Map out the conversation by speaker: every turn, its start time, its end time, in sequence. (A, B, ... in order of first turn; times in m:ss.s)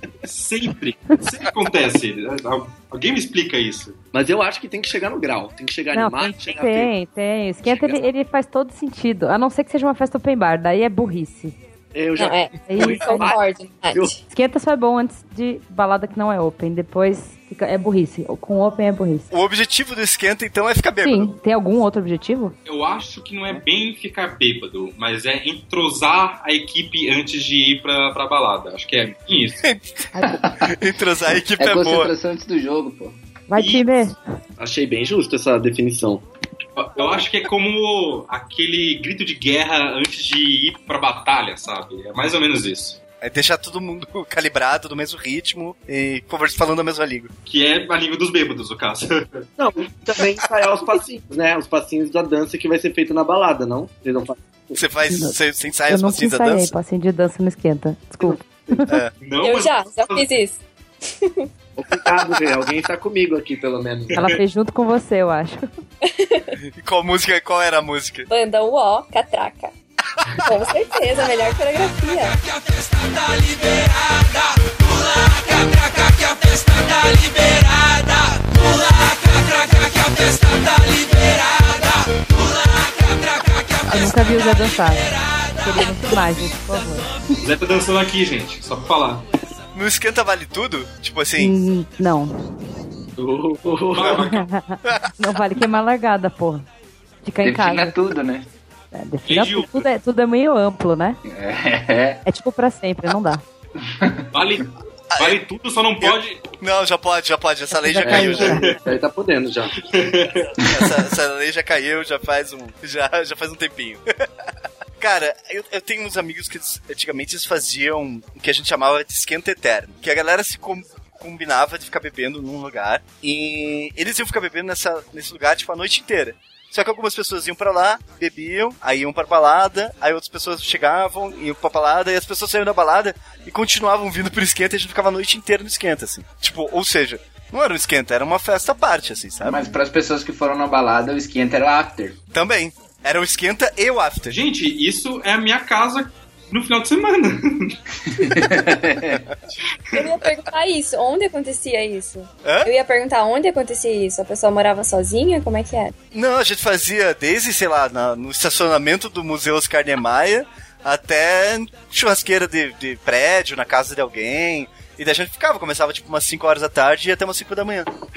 0:00.2-0:04.0 A
0:04.1-0:06.9 B
0:05.9-0:11.5 C
0:11.9-0:13.4 B
0:12.2-0:14.2 D
0:12.7-0:13.3 C
0:14.3-0:19.3 C
0:19.3-0:21.3 E
0:21.0-0:22.5 C
0:22.6-0:29.6 A
0:29.6-0:32.1 E
0:30.1-0:30.4 C
0:31.6-0:33.2 F
0:33.5-0:34.2 C
0:33.5-0:33.8 A
0:34.6-0:36.2 B
0:36.8-0:43.0 A
0:43.2-0:47.3 E
0:47.4-0:49.4 A
0:49.6-0:54.8 B
0:54.8-0:56.7 E
0:55.1-0:55.4 C
0:55.9-0:58.9 C
0:59.2-1:00.2 A
0:59.4-1:01.5 D
1:01.8-1:04.1 B
1:04.1-1:05.6 C
1:06.0-1:06.6 D
1:06.8-1:08.3 E
1:08.3-1:09.7 D
1:10.4-1:12.4 D
1:23.9-1:27.2 C
1:27.4-1:29.2 A
1:29.7-1:31.5 E
1:31.4-1:32.4 C
1:33.2-1:34.3 B
1:33.9-1:34.4 A
1:34.1-1:36.6 C
1:34.8-1:35.1 E
1:37.2-1:38.0 C
1:37.4-1:38.5 F
1:38.9-1:41.2 C
1:39.3-1:39.9 A
1:41.2-1:42.2 F
1:42.2-1:43.4 C
1:43.8-1:44.2 F
1:44.3-1:46.4 A
1:45.1-1:45.4 E
1:46.0-1:48.7 E
1:47.8-1:48.7 C
1:48.4-1:49.8 B
1:49.9-1:50.5 A
1:50.6-1:54.0 E
1:55.0-2:19.7 E
2:19.4-2:22.2 F
2:22.3-2:24.4 E
2:24.3-2:28.5 A
2:28.2-2:29.2 F
2:29.9-2:35.9 D
2:32.4-2:32.7 E
2:36.1-2:47.9 E